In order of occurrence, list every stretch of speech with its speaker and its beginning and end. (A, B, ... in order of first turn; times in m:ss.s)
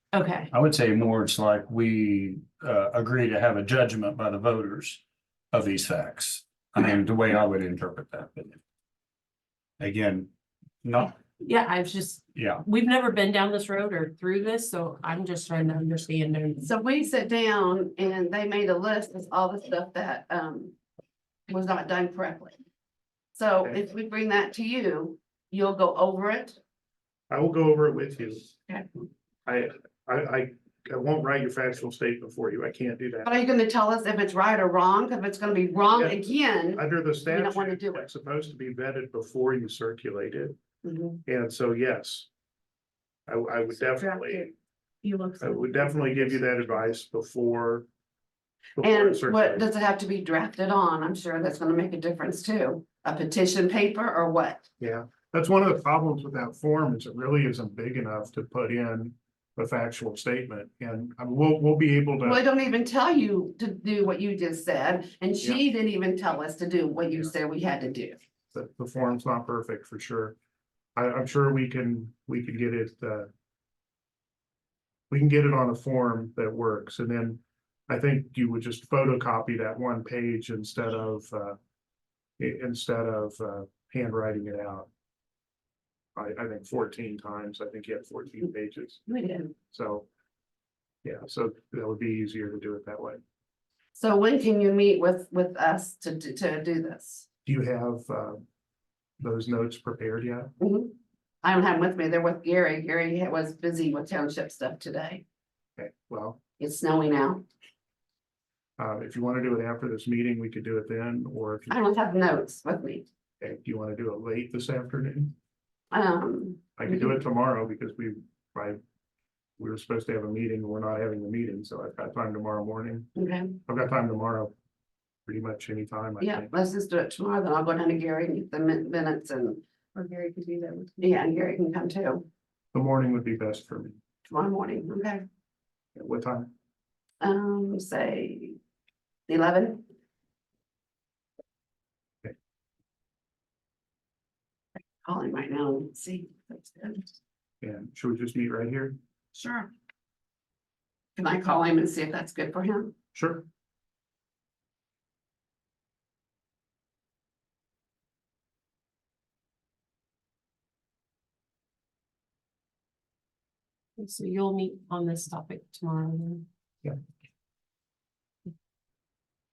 0:00.1-0:00.5 A
0:00.5-0:08.6 B
0:09.8-0:10.3 B
0:10.8-0:11.1 B
0:11.4-0:16.7 A
0:12.3-0:12.6 B
0:16.6-0:20.7 C
0:21.5-0:22.5 C
0:23.3-0:26.6 C
0:27.3-0:28.5 D
0:29.4-0:33.3 D
0:33.2-0:38.0 C
0:35.9-0:40.6 D
0:40.8-0:41.2 C
0:41.2-0:42.3 D
0:43.3-0:44.5 D
0:43.9-0:44.5 A
0:45.0-0:46.1 A
0:45.4-0:47.9 D
0:48.8-0:49.6 D
0:48.8-0:54.6 C
0:54.8-1:02.4 D
1:02.2-1:08.2 C
1:08.5-1:10.4 D
1:11.0-1:13.3 D
1:15.1-1:21.6 D
1:22.4-1:24.9 D
1:26.2-1:29.0 D
1:29.1-1:29.5 C
1:29.7-1:30.1 D
1:31.0-1:33.2 D
1:34.0-1:37.2 C
1:37.4-1:38.4 D
1:39.2-1:40.5 D
1:40.6-1:45.2 C
1:45.8-1:46.4 D
1:46.6-1:47.4 C
1:48.8-1:51.8 D
1:51.7-1:53.1 C
1:53.4-1:55.3 D
1:55.9-1:57.2 C
1:56.8-1:58.8 D
1:59.6-2:03.1 D
2:03.2-2:03.6 C
2:03.6-2:04.5 D
2:05.2-2:06.5 D
2:06.2-2:09.6 C
2:09.9-2:11.0 A
2:11.0-2:12.3 C
2:12.7-2:14.0 D
2:14.2-2:15.2 C
2:16.0-2:16.5 D
2:17.2-2:18.6 C
2:19.3-2:19.8 C
2:25.0-2:27.0 C
2:27.6-2:29.0 D
2:29.3-2:29.7 C
2:31.2-2:32.9 C
2:33.1-2:33.4 D
2:44.0-2:46.4 A